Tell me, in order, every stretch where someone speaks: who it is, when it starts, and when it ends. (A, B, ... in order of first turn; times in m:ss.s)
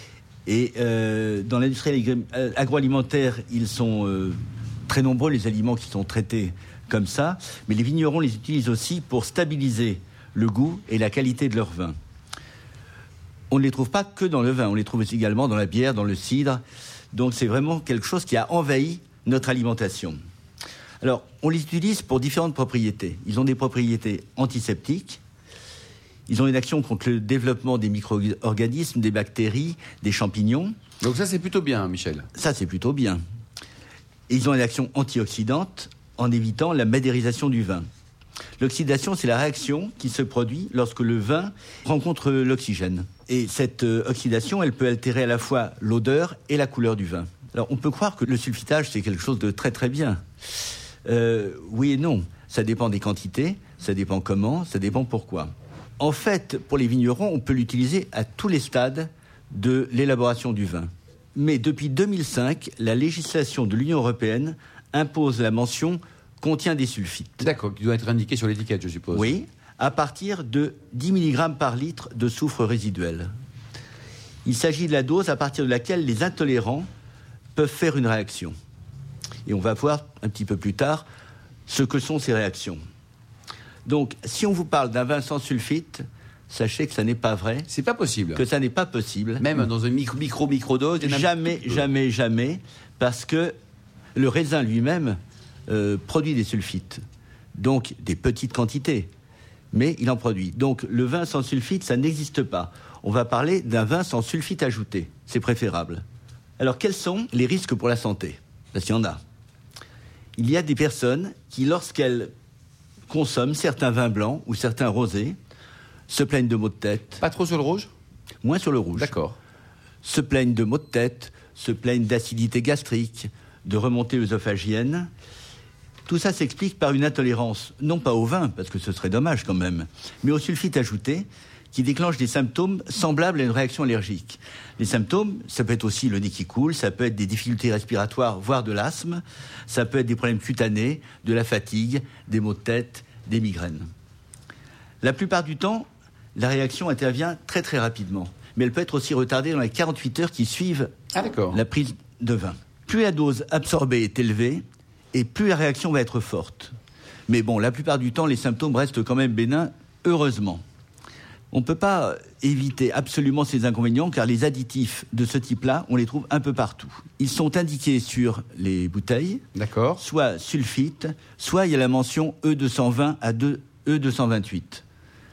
0:00.4-0:12.0 A
0:13.5-0:16.6 A
0:17.1-0:20.2 A
0:21.0-0:25.2 A
0:26.3-0:30.8 A
0:31.0-0:32.3 B
0:32.4-0:33.2 A
0:34.3-0:37.9 A
0:38.6-0:50.2 A
0:51.0-1:07.5 A
1:07.4-1:09.4 B
1:09.1-1:13.3 A
1:14.4-1:16.9 A
1:17.5-1:18.6 A
1:19.4-1:21.0 A
1:21.7-1:22.8 A
1:23.8-1:27.6 A
1:27.7-1:28.4 B
1:28.3-1:29.5 A
1:29.4-1:31.8 B
1:31.0-1:33.6 A
1:34.1-1:37.0 A
1:37.5-1:39.1 A
1:39.7-1:46.0 A
1:46.6-1:49.2 A
1:50.4-1:52.3 A
1:53.1-1:55.4 A
1:56.1-1:57.2 A
1:57.2-1:57.9 B
1:58.4-1:59.1 A
1:59.0-1:59.3 B
2:00.0-2:05.1 A
2:06.0-2:23.9 A
2:25.0-2:30.9 A
2:31.1-2:31.6 B
2:31.5-2:36.7 A
2:37.3-2:40.6 A
2:41.5-2:49.4 A
2:49.6-2:50.0 B
2:50.0-2:54.8 A